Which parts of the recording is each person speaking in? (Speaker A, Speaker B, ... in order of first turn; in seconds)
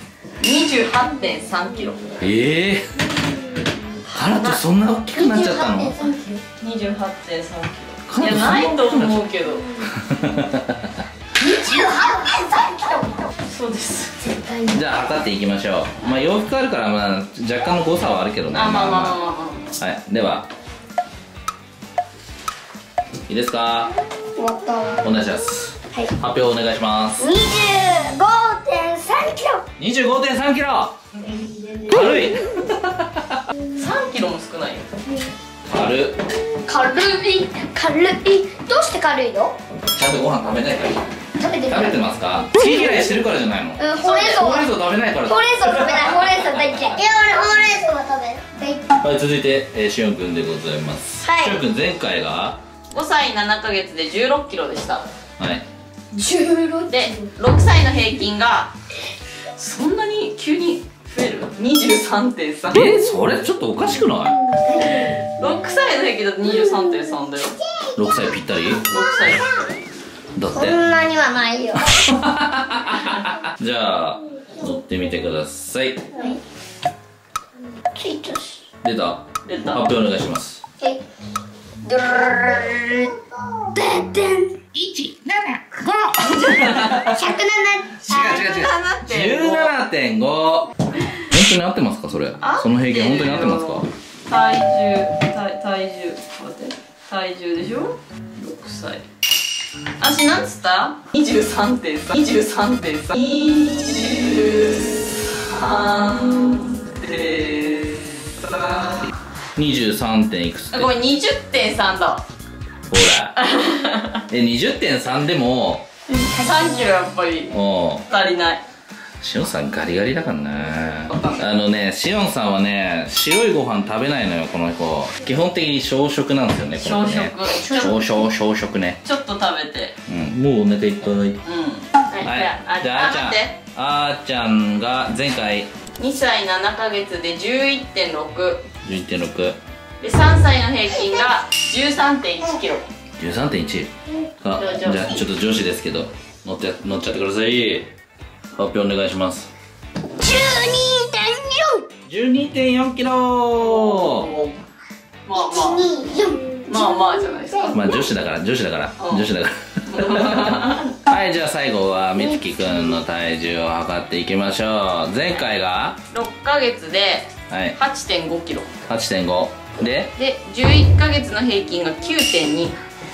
Speaker A: 0.4-2.2, 6.6-9.8, 13.5-14.3, 18.5-19.8, 33.8-34.9, 52.9-55.1, 56.9-58.7, 59.5-63.0, 64.7-67.6, 68.9-69.5, 79.4-79.8, 82.0-82.7, 86.3-87.1, 88.1-89.7, 92.4-99.0, 100.0-109.1, 110.7-112.2, 113.4-114.2, 116.2-117.5, 118.1-118.6, 121.1-121.5, 126.8-128.0, 129.0-130.0, 131.4-133.6, 136.0-138.6, 140.0-142.8, 144.6-145.2, 153.6-154.6, 155.3-155.9, 156.7-158.0, 159.0-159.3, 159.9-160.9, 166.1-168.7, 170.2-172.8
Speaker B: 2.2-3.0, 4.1-5.9, 8.1-9.2, 9.8-11.0, 14.7-19.2, 19.8-20.5, 23.3-23.9, 25.0-27.3, 29.8-31.0, 31.9-33.4, 35.7-36.2, 39.9-41.1, 41.7-46.6, 49.0-52.6, 55.4-55.6, 62.7-64.4, 68.0-68.8, 70.4-70.8, 71.9-76.1, 78.8-80.6, 84.7-87.2, 88.1-90.7, 91.2-93.9, 109.6-110.9, 112.9-113.4, 114.3-115.9, 117.5-118.0, 119.2-129.0, 130.1-131.4, 132.2-135.7, 138.8-139.6, 143.2-143.9, 144.4-147.9, 148.6-149.5, 152.1-154.3, 157.7-166.0, 167.5-167.8, 168.9-170.1
Speaker C: 5.2-6.4, 11.4-13.3, 14.3-14.8, 24.4-25.0, 27.2-29.6, 31.4-31.9, 36.7-39.6, 41.4-42.0, 43.8-44.6, 45.3-48.8, 51.2-51.6, 56.1-57.2, 64.6-65.1, 70.5-72.0, 78.0-78.6, 81.9-83.2, 83.7-84.5, 87.1-88.4, 150.2-151.8, 155.3-157.0, 157.6-157.9